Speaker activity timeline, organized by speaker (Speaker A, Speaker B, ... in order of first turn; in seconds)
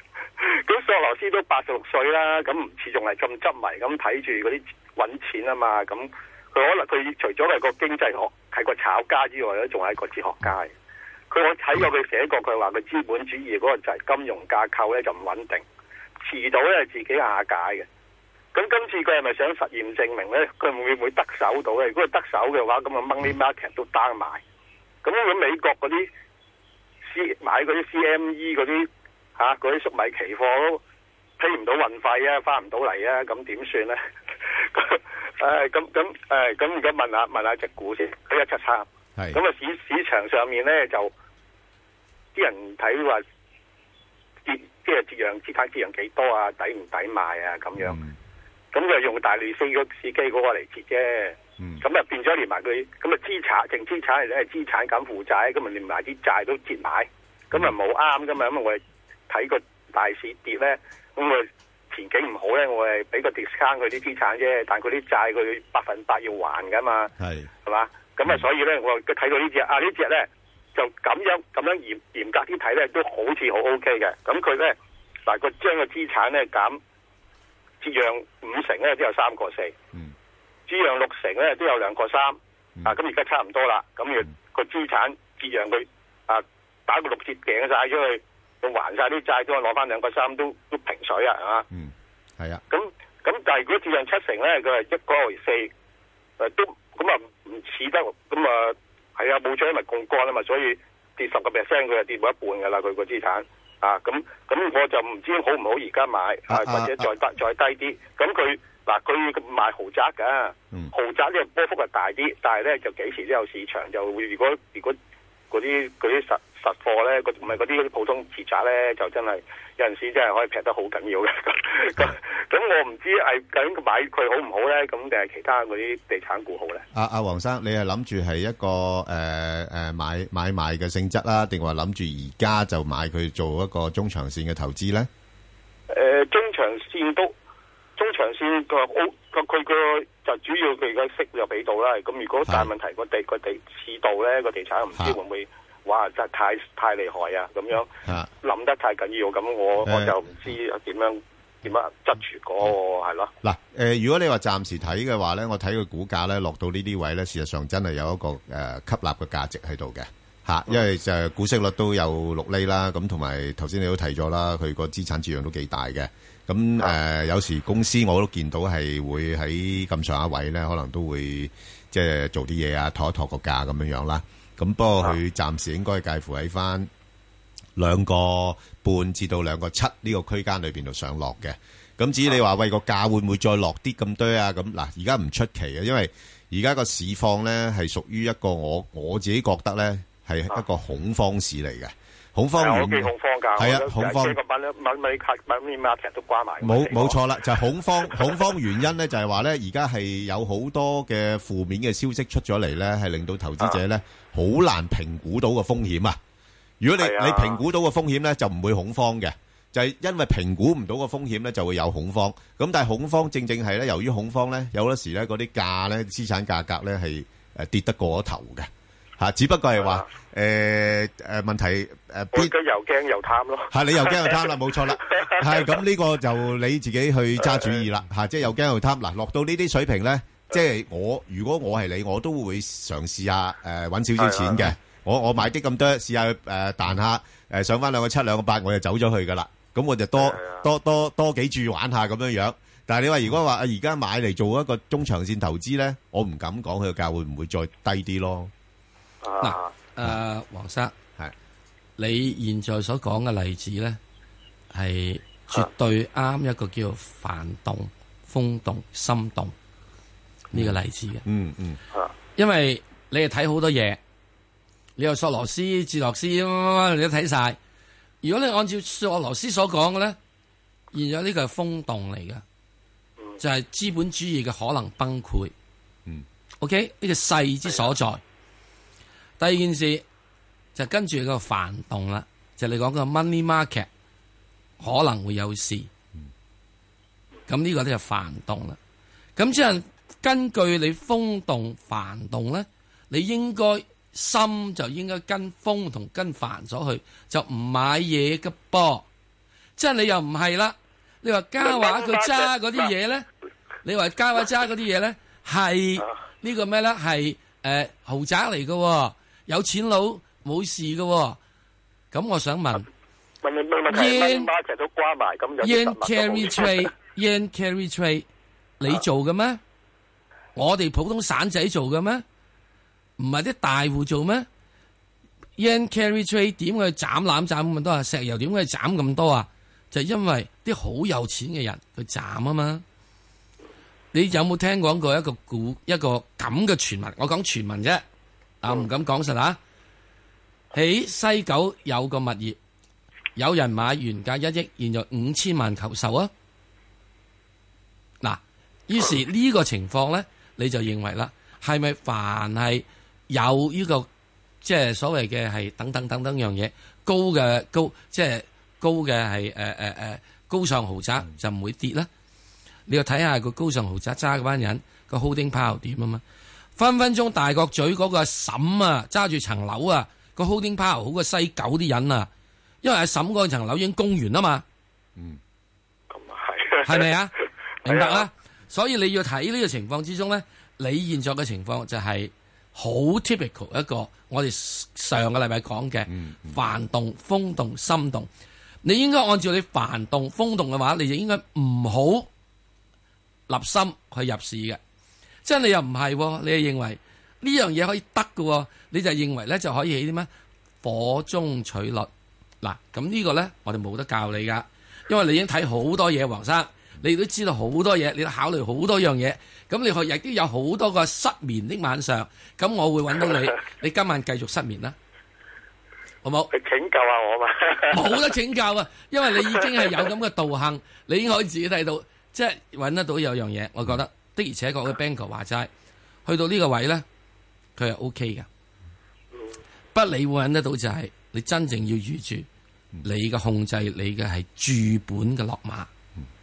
Speaker A: 0.4-10.7, 11.3-15.6, 16.2-17.9, 18.5-24.4, 25.0-26.1, 27.1-30.8, 31.4-34.0, 34.7-41.1, 42.4-43.2, 44.5-48.0, 48.7-67.1, 67.7-74.8, 75.3-76.8, 77.8-79.8, 80.7-91.7, 92.7-95.7, 96.4-115.0, 115.5-126.8, 135.9-137.3, 138.0-153.3, 192.6-197.2, 198.0-198.5, 207.0-207.6, 219.8-220.0, 222.3-225.8, 227.4-227.8, 234.2-234.7, 240.2-240.6, 249.2-249.7, 301.6-302.5, 313.4-316.9, 376.1-377.1, 377.9-378.3, 416.5-418.2
Speaker B: 39.2-39.4, 47.8-48.2, 51.6-51.8, 67.2-67.5, 91.7-92.6, 106.5-107.1, 126.9-135.1, 142.5-142.7, 148.0-148.3, 149.8-150.2, 153.4-176.9, 177.8-194.4, 196.6-206.2, 206.8-222.5, 223.7-248.5, 260.5-261.8, 386.1-386.6
Speaker C: 249.4-250.9, 252.0-254.0, 254.7-259.5, 260.5-261.2, 262.4-264.0, 265.0-267.6, 268.2-270.2, 270.9-272.4, 273.4-275.5, 276.6-278.2, 279.4-280.0, 280.8-283.9, 284.8-285.9, 287.5-288.8, 289.4-299.1, 299.8-303.2, 303.8-311.4, 312.1-312.9, 313.9-314.5, 315.6-318.3, 318.8-319.6, 320.6-322.2, 323.2-324.5, 325.6-332.8, 334.1-338.0, 338.6-339.6, 340.7-342.6, 343.4-346.3, 348.2-354.1, 354.6-362.1, 362.9-366.2, 366.8-372.3, 372.8-374.6, 376.8-388.3, 388.8-392.3, 393.5-394.8, 395.4-400.3, 400.8-402.1, 402.6-415.0, 416.2-416.5, 417.9-425.7, 426.3-427.1, 427.8-428.5, 429.9-432.5, 433.0-435.9